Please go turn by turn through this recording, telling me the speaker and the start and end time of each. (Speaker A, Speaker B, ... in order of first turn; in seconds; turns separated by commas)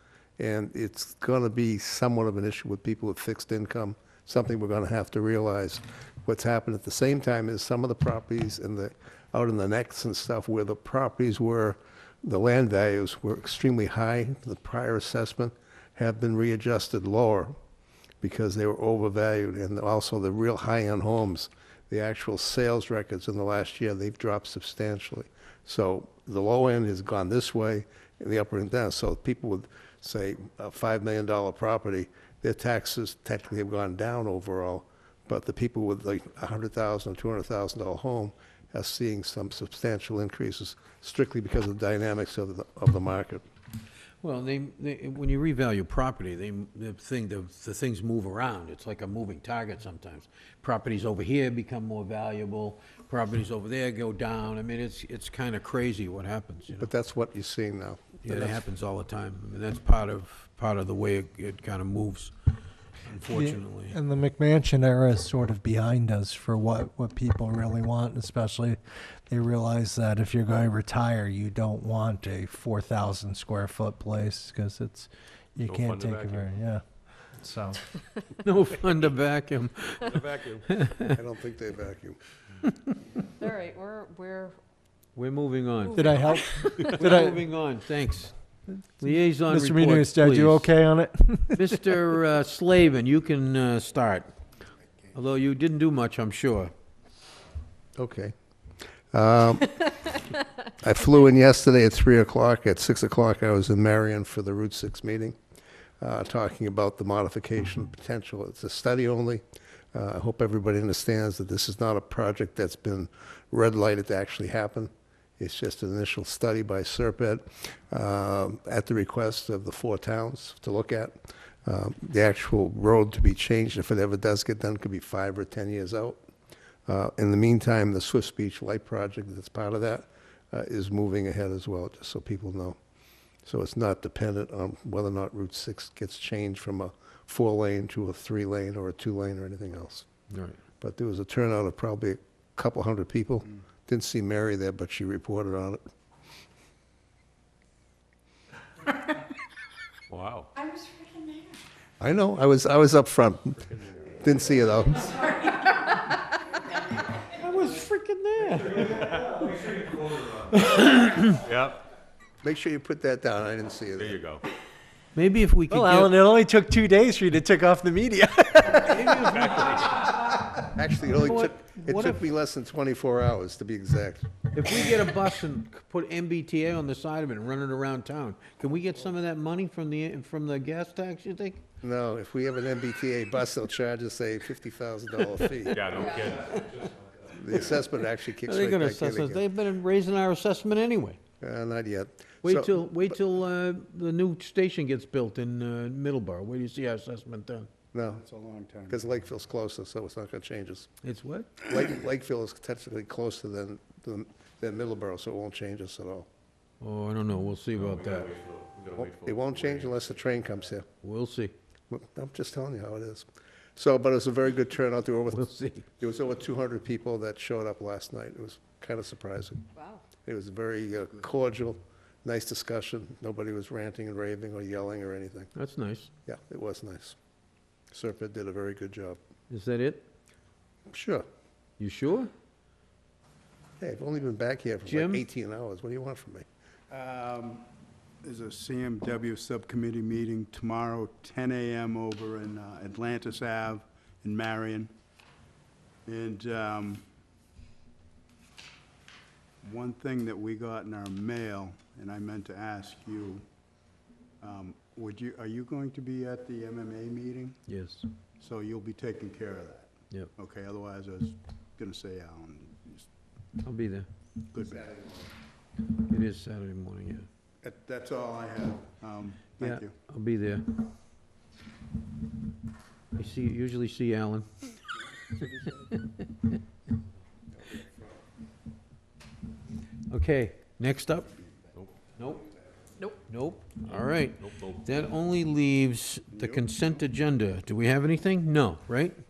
Speaker A: 0.4-17.6, Speaker A: 18.2-43.4, Speaker B: 44.2-56.9, Speaker A: 56.8-58.6, Speaker B: 58.2-62.3, Speaker B: 63.0-64.0, Speaker C: 63.3-77.9, Speaker D: 75.6-76.5, Speaker B: 78.4-81.1, Speaker D: 80.0-80.6, Speaker A: 81.1-82.2, Speaker E: 83.4-84.6, Speaker B: 85.1-86.1, Speaker E: 85.9-86.3, Speaker C: 86.0-87.4, Speaker B: 86.8-88.4, Speaker B: 89.0-90.8, Speaker C: 89.5-91.8, Speaker B: 91.5-94.3, Speaker B: 95.1-96.7, Speaker A: 98.0-98.3, Speaker A: 99.1-99.9, Speaker A: 100.7-105.3, Speaker A: 106.0-109.4, Speaker A: 109.9-126.2, Speaker A: 126.9-132.8, Speaker A: 133.4-140.1, Speaker B: 140.3-140.6, Speaker A: 140.8-145.8, Speaker D: 150.1-150.5, Speaker E: 150.6-151.6, Speaker A: 152.0-155.4, Speaker B: 157.4-159.7, Speaker D: 158.8-159.4, Speaker B: 160.8-161.3, Speaker D: 161.3-161.8, Speaker A: 162.4-164.2, Speaker D: 163.9-164.4, Speaker B: 165.2-166.2, Speaker C: 165.7-169.2, Speaker B: 168.8-170.3, Speaker D: 169.2-170.0, Speaker A: 170.0-174.3, Speaker B: 171.1-172.2, Speaker B: 174.5-181.6, Speaker A: 181.8-186.3, Speaker D: 185.7-186.9, Speaker E: 185.9-186.4, Speaker A: 187.3-189.4, Speaker B: 188.3-191.2, Speaker A: 191.4-192.8, Speaker B: 192.4-197.7, Speaker A: 197.9-198.2, Speaker F: 198.1-199.2, Speaker A: 198.9-200.9, Speaker B: 201.0-201.6, Speaker A: 201.6-206.3, Speaker B: 206.8-208.3, Speaker D: 207.7-210.0, Speaker A: 208.9-210.8, Speaker B: 211.0-211.5, Speaker A: 211.9-219.6, Speaker B: 215.3-215.8, Speaker E: 219.8-220.0, Speaker A: 220.2-225.5, Speaker B: 225.5-226.1, Speaker A: 226.2-227.2, Speaker A: 227.9-229.2, Speaker B: 229.5-230.1, Speaker A: 230.9-231.2, Speaker B: 231.8-232.3, Speaker A: 233.8-236.4, Speaker B: 234.9-235.2, Speaker F: 236.9-237.7, Speaker F: 238.2-244.9, Speaker F: 246.1-247.1, Speaker F: 249.6-253.4, Speaker F: 254.4-257.7, Speaker B: 257.7-258.1, Speaker F: 258.4-263.1, Speaker B: 263.6-264.1, Speaker F: 264.5-264.9, Speaker A: 264.6-265.3, Speaker B: 266.1-267.3, Speaker F: 267.6-269.9, Speaker B: 269.6-270.8, Speaker B: 273.1-274.7, Speaker F: 275.3-276.0, Speaker B: 280.1-281.3, Speaker B: 282.2-282.4, Speaker B: 283.2-289.1, Speaker D: 283.8-285.0, Speaker F: 286.3-286.7